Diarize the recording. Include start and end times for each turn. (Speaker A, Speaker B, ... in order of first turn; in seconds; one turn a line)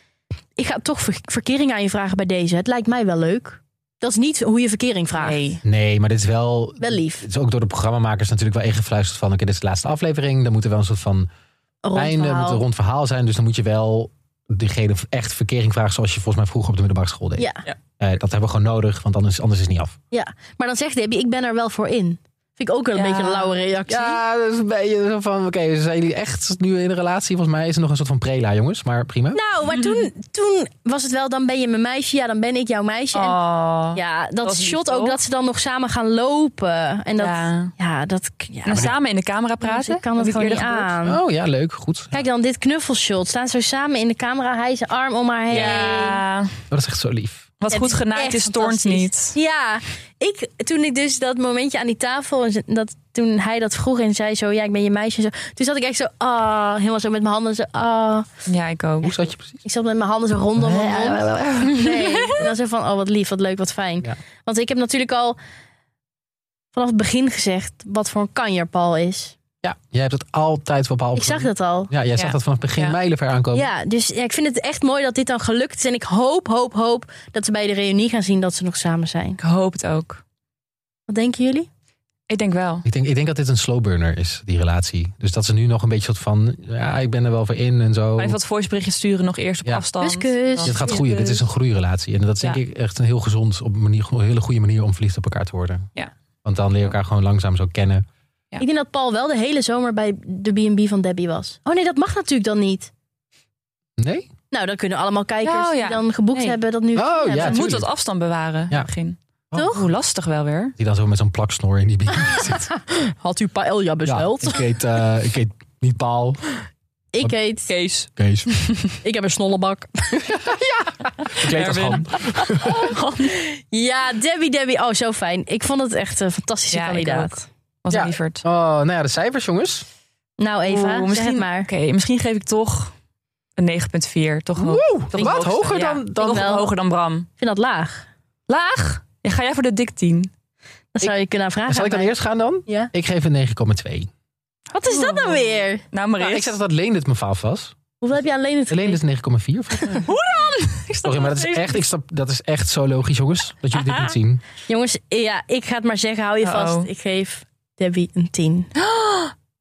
Speaker A: 0.6-5.5
Speaker B: 5.2-5.6
Speaker C: 5.6-11.3
Speaker A: 6.8-7.3
Speaker A: 11.8-12.6
Speaker C: 11.9-17.5
Speaker A: 17.4-17.6
Speaker C: 18.0-20.0
Speaker A: 20.1-24.2
Speaker B: 22.9-23.6
Speaker C: 23.9-29.4
Speaker A: 29.3-33.4
Speaker B: 29.7-30.1
Speaker B: 33.1-35.2
Speaker A: 33.9-38.9
Speaker B: 37.2-37.7
Speaker B: 38.6-40.9
Speaker A: 39.6-41.2
Speaker C: 41.0-42.2
Speaker A: 42.1-46.2
Speaker B: 45.5-46.6
Speaker C: 46.7-47.5
Speaker B: 47.6-49.4
Speaker A: 47.7-58.3
Speaker B: 58.5-59.2
Speaker C: 59.0-59.6
Speaker A: 59.6-65.4
Speaker C: 60.6-61.7
Speaker B: 61.6-62.5
Speaker A: 66.7-69.3
Speaker C: 69.6-73.7
Speaker A: 71.2-71.9
Speaker B: 72.2-73.0
Speaker A: 73.5-79.4
Speaker B: 79.4-80.2
Speaker A: 81.1-81.7
Speaker B: 82.3-82.8
Speaker C: 82.8-88.4
Speaker B: 88.2-91.4
Speaker A: 90.0-91.0
Speaker C: 90.6-95.9
Speaker C: 96.5-98.0
Speaker A: 98.6-102.9
Speaker C: 104.0-104.3
Speaker A: 104.5-107.6
Speaker B: 105.4-106.6
Speaker C: 107.0-107.9
Speaker B: 107.3-110.8
Speaker C: 109.5-109.8
Speaker A: 109.5-109.8
Speaker C: 110.8-112.7
Speaker A: 112.3-114.6
Speaker C: 114.0-116.4
Speaker A: 117.1-117.7
Speaker B: 117.7-119.0
Speaker C: 118.2-118.5
Speaker A: 119.0-120.4
Speaker C: 120.3-123.0
Speaker B: 121.3-123.3
Speaker A: 123.3-127.4
Speaker B: 126.7-128.4
Speaker C: 127.9-129.8
Speaker A: 130.4-131.7
Speaker B: 130.7-132.9
Speaker B: 133.6-137.3
Speaker C: 134.6-136.6
Speaker A: 135.2-136.7
Speaker A: 137.4-138.1
Speaker B: 138.5-140.3
Speaker A: 140.9-142.1
Speaker C: 141.7-144.1
Speaker A: 144.7-145.9
Speaker B: 144.9-146.6
Speaker C: 146.2-147.8
Speaker A: 148.0-149.0
Speaker C: 148.7-150.1
Speaker B: 149.9-151.8
Speaker C: 151.0-154.4
Speaker B: 153.8-154.1
Speaker A: 154.7-158.7
Speaker B: 156.4-156.9
Speaker B: 158.8-159.3